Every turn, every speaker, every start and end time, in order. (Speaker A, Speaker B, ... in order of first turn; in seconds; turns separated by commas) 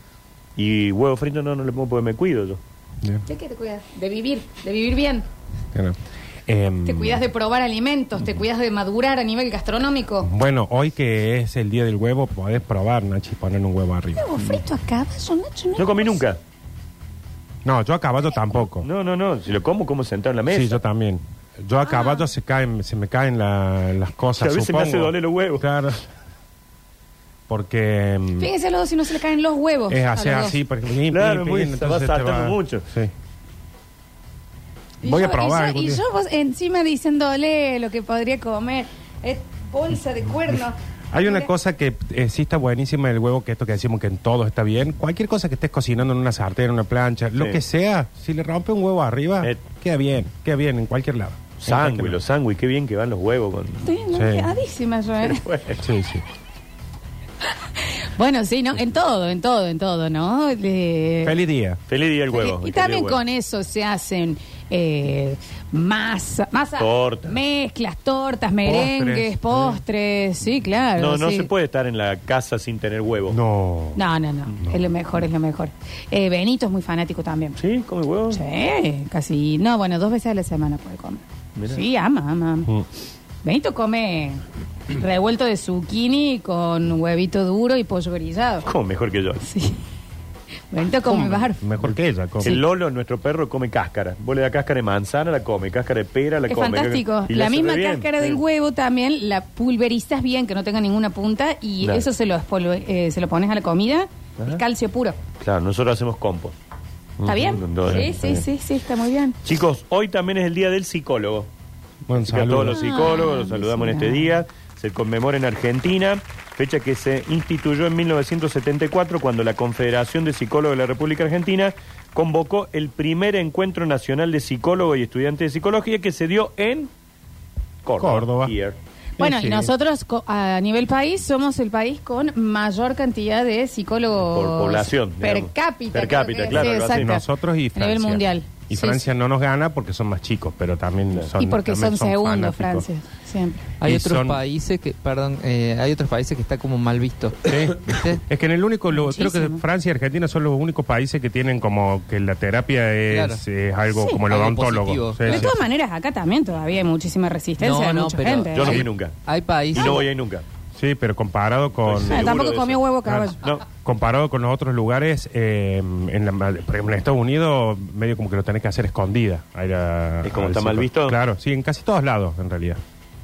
Speaker A: 0.6-2.6, Speaker B: 3.2-5.2, Speaker C: 5.7-7.2, Speaker B: 6.8-10.3, Speaker C: 10.2-14.2, Speaker B: 14.1-16.2, Speaker A: 15.8-16.4, Speaker C: 17.6-18.9, Speaker A: 18.8-20.8, Speaker C: 20.5-26.1, Speaker B: 21.8-22.3, Speaker A: 24.4-25.7, Speaker C: 27.5-28.5, Speaker B: 28.4-30.6, Speaker C: 29.9-33.1, Speaker A: 31.1-32.9, Speaker B: 35.0-41.5, Speaker C: 35.0-36.0, Speaker C: 41.1-52.2, Speaker A: 51.6-53.9, Speaker B: 53.8-55.4, Speaker C: 54.1-54.5, Speaker A: 55.2-55.9, Speaker C: 55.8-56.2, Speaker B: 57.6-61.4, Speaker C: 61.2-61.8, Speaker A: 61.9-63.2, Speaker B: 62.3-71.5, Speaker A: 66.8-67.3, Speaker C: 68.6-69.8, Speaker A: 71.0-73.4, Speaker C: 73.3-74.0, Speaker B: 74.0-77.6, Speaker A: 77.6-78.4, Speaker B: 78.3-82.7, Speaker A: 81.5-81.8, Speaker B: 83.4-88.7, Speaker A: 88.7-89.4, Speaker B: 89.4-89.8, Speaker B: 90.7-91.7, Speaker C: 91.1-92.6, Speaker A: 92.4-98.4, Speaker B: 96.5-105.2, Speaker A: 105.4-106.5, Speaker C: 107.2-108.4, Speaker B: 107.2-109.4, Speaker A: 107.5-108.4, Speaker A: 109.4-111.5, Speaker C: 112.0-112.8, Speaker A: 112.1-126.9, Speaker B: 112.7-114.3, Speaker A: 127.8-128.8, Speaker C: 128.0-128.5, Speaker C: 129.2-129.7, Speaker B: 129.2-139.0, Speaker A: 134.3-137.1, Speaker C: 136.5-142.8, Speaker B: 141.4-143.7, Speaker D: 143.8-148.2, Speaker C: 143.8-144.4, Speaker C: 147.5-155.5, Speaker B: 148.9-149.6, Speaker D: 153.1-153.4, Speaker B: 153.9-154.2, Speaker D: 154.2-155.5, Speaker B: 155.2-158.8, Speaker D: 157.6-160.0, Speaker A: 158.5-159.1, Speaker A: 159.7-160.4, Speaker C: 160.7-162.4, Speaker A: 161.8-162.8, Speaker B: 162.0-163.4, Speaker C: 163.0-172.8, Speaker A: 170.2-171.2